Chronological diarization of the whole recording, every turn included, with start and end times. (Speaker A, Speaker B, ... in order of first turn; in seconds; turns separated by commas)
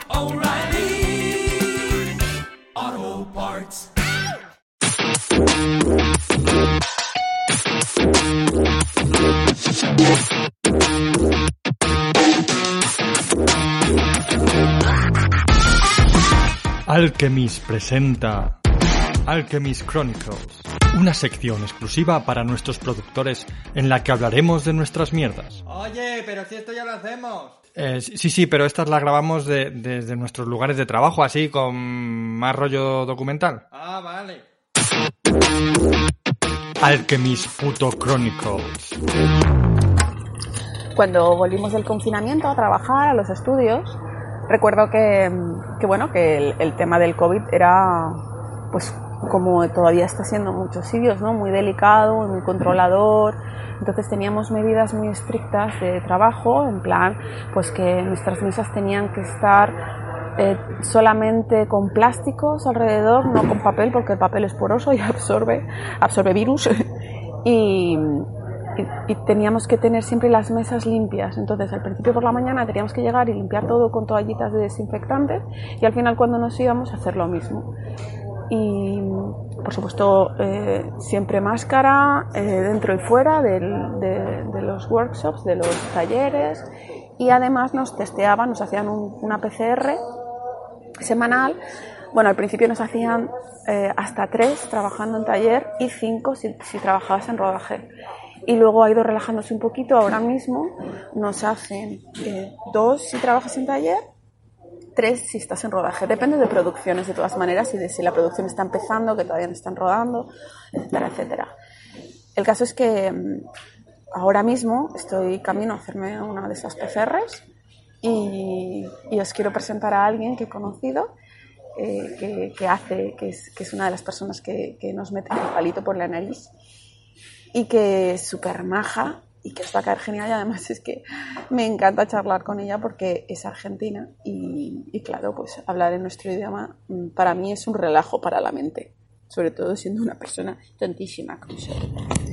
Speaker A: 16.9-18.6, Speaker A: 19.2-25.7, Speaker B: 25.7-27.6, Speaker A: 27.7-33.6, Speaker B: 33.7-34.4, Speaker A: 36.8-39.0, Speaker C: 40.9-48.2, Speaker C: 48.7-59.8, Speaker C: 60.4-66.8, Speaker C: 67.4-77.7, Speaker C: 78.5-86.7, Speaker C: 87.2-90.0, Speaker C: 91.0-91.6, Speaker C: 92.1-97.9, Speaker C: 98.5-104.0, Speaker C: 105.0-111.5, Speaker C: 112.3-113.5, Speaker C: 114.1-117.4, Speaker C: 118.0-121.1, Speaker C: 121.8-126.5, Speaker C: 127.5-142.0